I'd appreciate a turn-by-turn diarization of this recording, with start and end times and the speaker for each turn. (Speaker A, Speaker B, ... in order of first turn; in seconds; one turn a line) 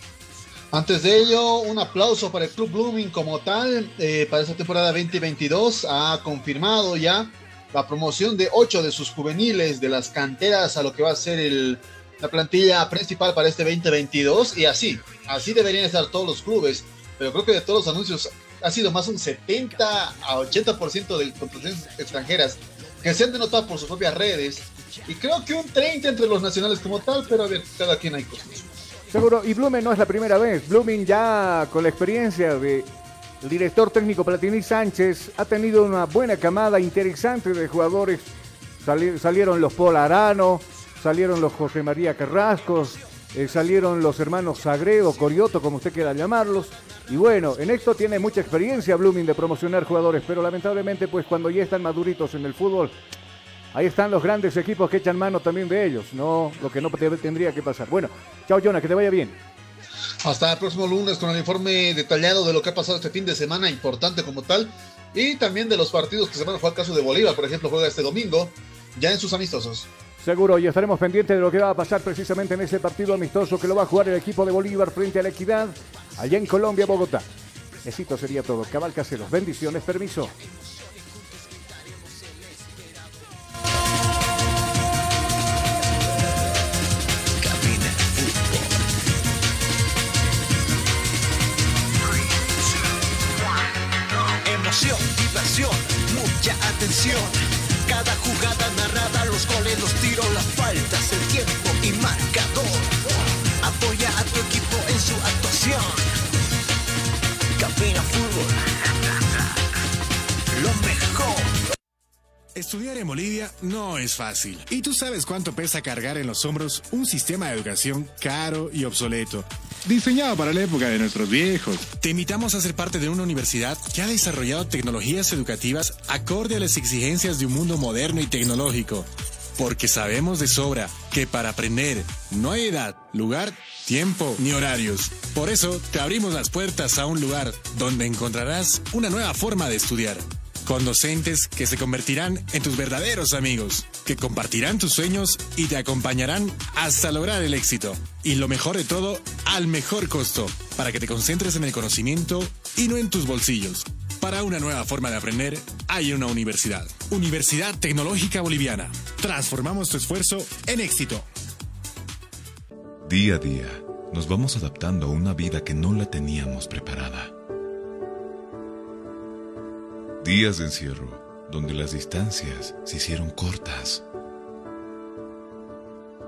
Speaker A: 0.7-28.6
Speaker B: 29.1-32.9
Speaker B: 33.4-38.3
Speaker B: 38.8-53.0
Speaker B: 53.7-59.4
Speaker A: 60.2-69.9
Speaker B: 70.2-77.3
Speaker B: 77.8-80.3
Speaker C: 81.1-82.9
Speaker C: 87.4-88.8
Speaker C: 94.4-103.0
Speaker C: 103.6-106.1
Speaker C: 107.6-108.7
Speaker C: 110.5-111.5
Speaker D: 112.5-161.3
Speaker E: 163.1-167.3
Speaker E: 170.2-174.1